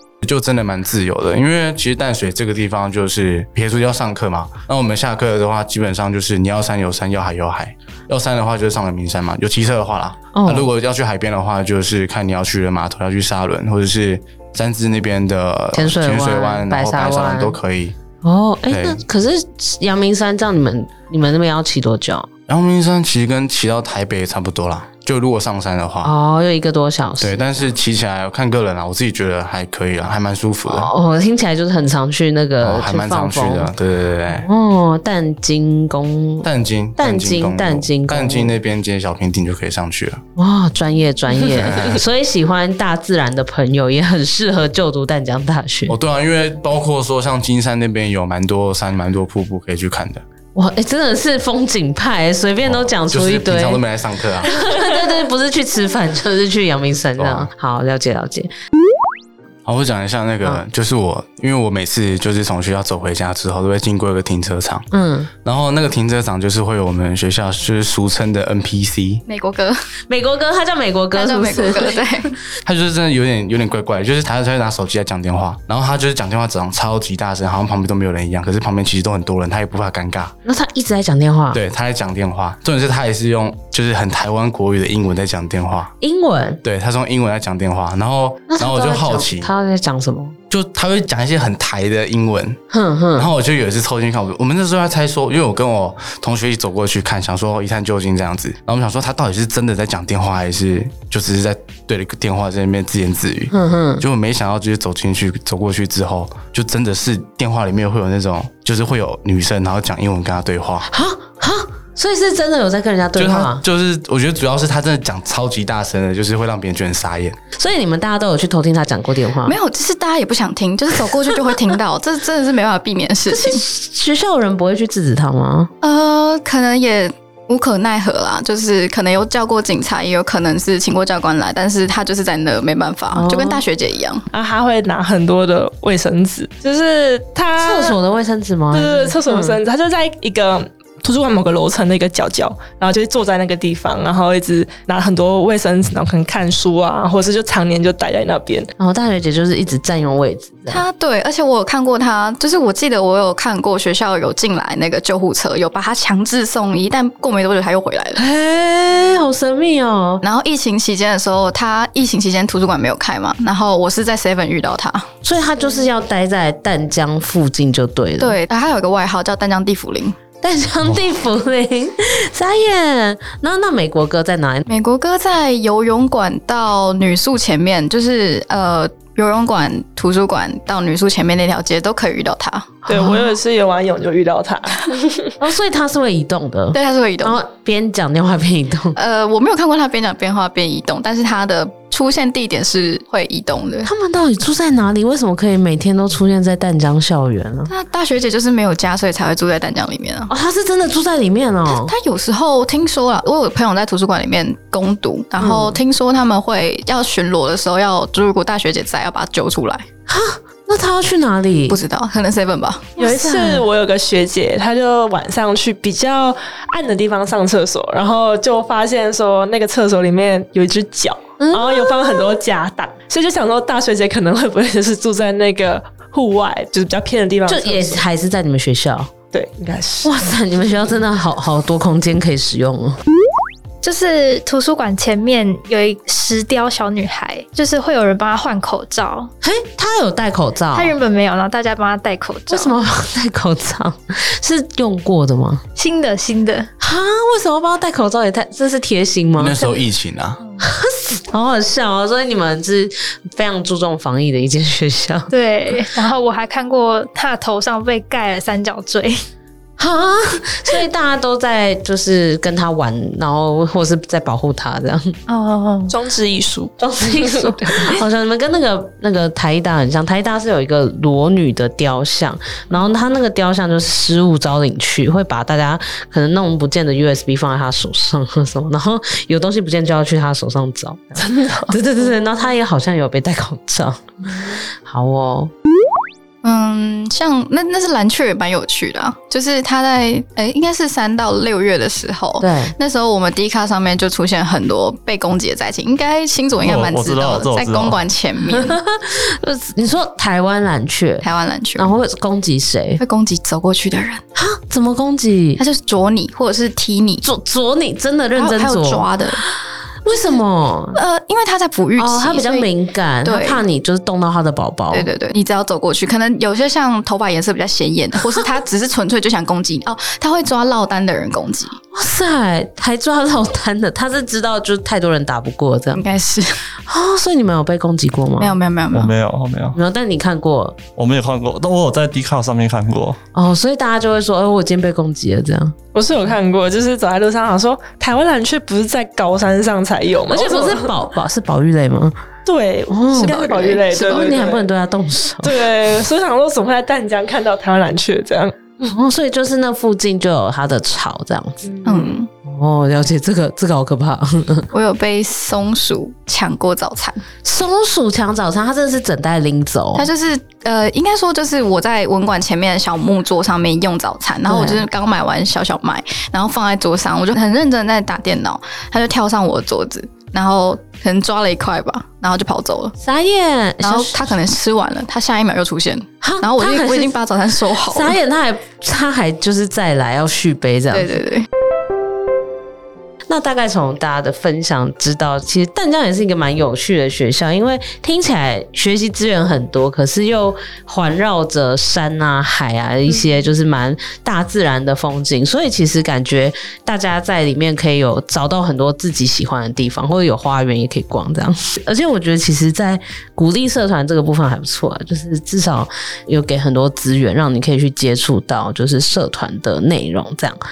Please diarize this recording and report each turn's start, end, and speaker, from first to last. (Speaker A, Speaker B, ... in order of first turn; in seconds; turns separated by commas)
Speaker A: 0.2-17.9, Speaker B: 10.3-10.7, Speaker B: 15.7-17.6, Speaker B: 18.2-22.3, Speaker A: 18.7-19.0, Speaker A: 22.5-26.1, Speaker B: 26.0-27.6, Speaker A: 27.2-30.9, Speaker B: 30.6-33.7, Speaker A: 32.6-34.5, Speaker B: 34.3-38.5, Speaker A: 36.4-40.2, Speaker B: 40.4-46.0, Speaker A: 41.4-42.0, Speaker A: 45.9-50.2, Speaker B: 50.5-53.8, Speaker A: 52.6-54.6, Speaker B: 54.4-58.5, Speaker A: 57.2-57.5, Speaker A: 59.6-64.9, Speaker B: 64.9-65.3, Speaker A: 65.4-69.2, Speaker C: 69.3-69.8, Speaker B: 70.1-72.0, Speaker C: 71.1-72.4, Speaker A: 72.6-80.3, Speaker B: 80.4-81.6, Speaker A: 81.5-85.9, Speaker B: 86.0-86.6, Speaker A: 86.6-89.5, Speaker B: 88.5-90.4, Speaker A: 90.5-92.6, Speaker B: 92.7-93.3, Speaker A: 93.2-110.9, Speaker B: 103.5-104.0, Speaker B: 110.9-113.6, Speaker A: 113.2-117.4, Speaker B: 117.5-119.6, Speaker C: 119.4-123.6, Speaker B: 123.3-125.7, Speaker C: 125.8-134.2, Speaker B: 133.1-133.6, Speaker D: 134.3-138.0, Speaker B: 137.6-139.6, Speaker D: 138.7-148.7, Speaker B: 148.8-150.8, Speaker C: 150.7-158.2, Speaker B: 158.2-160.2, Speaker C: 160.2-165.1, Speaker B: 165.2-168.4, Speaker C: 168.2-170.2, Speaker B: 170.4-174.6, Speaker C: 174.7-182.8, Speaker D: 182.8-185.3, Speaker B: 182.9-183.3, Speaker B: 185.4-188.9, Speaker C: 186.7-187.4, Speaker C: 188.9-193.9, Speaker B: 193.8-197.7, Speaker C: 197.7-200.3, Speaker B: 200.3-201.9, Speaker C: 201.7-209.8, Speaker B: 205.4-205.8, Speaker B: 210.1-211.8, Speaker C: 211.7-213.0, Speaker D: 213.0-228.0, Speaker B: 213.0-213.6, Speaker B: 221.4-222.3, Speaker B: 227.5-229.1, Speaker D: 229.3-230.3, Speaker B: 230.0-233.0, Speaker E: 233.8-239.3, Speaker B: 239.4-240.9, Speaker E: 240.7-242.7, Speaker B: 242.5-245.6, Speaker E: 245.8-246.7, Speaker B: 246.8-249.7, Speaker A: 249.4-250.4, Speaker B: 250.6-255.3, Speaker E: 255.3-259.2, Speaker B: 259.8-265.1, Speaker E: 265.3-265.9, Speaker D: 265.9-268.0, Speaker B: 266.8-285.5, Speaker D: 281.2-281.7, Speaker C: 286.4-298.8, Speaker B: 292.4-292.8, Speaker F: 296.6-298.0, Speaker B: 298.5-303.0, Speaker C: 301.2-301.9, Speaker C: 303.0-304.2, Speaker B: 304.4-305.6, Speaker C: 305.6-307.2, Speaker B: 307.2-311.0, Speaker C: 308.4-309.4, Speaker C: 310.9-312.7, Speaker B: 311.9-315.1, Speaker C: 313.2-313.6, Speaker C: 314.9-321.8, Speaker B: 321.9-326.0, Speaker C: 325.9-326.6, Speaker B: 326.9-328.6, Speaker C: 328.4-329.1, Speaker F: 328.9-329.8, Speaker B: 329.7-330.8, Speaker F: 330.9-333.2, Speaker B: 333.3-335.7, Speaker D: 335.9-340.9, Speaker B: 340.3-342.1, Speaker D: 342.4-344.6, Speaker B: 342.9-345.6, Speaker C: 343.2-344.2, Speaker D: 345.4-348.8, Speaker B: 348.8-351.9, Speaker D: 351.6-352.1, Speaker C: 351.8-352.3, Speaker B: 352.4-354.7, Speaker C: 354.7-357.2, Speaker B: 357.4-360.1, Speaker C: 359.9-372.9, Speaker B: 364.4-364.8, Speaker B: 373.0-374.3, Speaker C: 373.8-378.1, Speaker B: 376.2-377.1, Speaker B: 377.8-381.2, Speaker C: 380.9-381.5, Speaker B: 383.3-410.6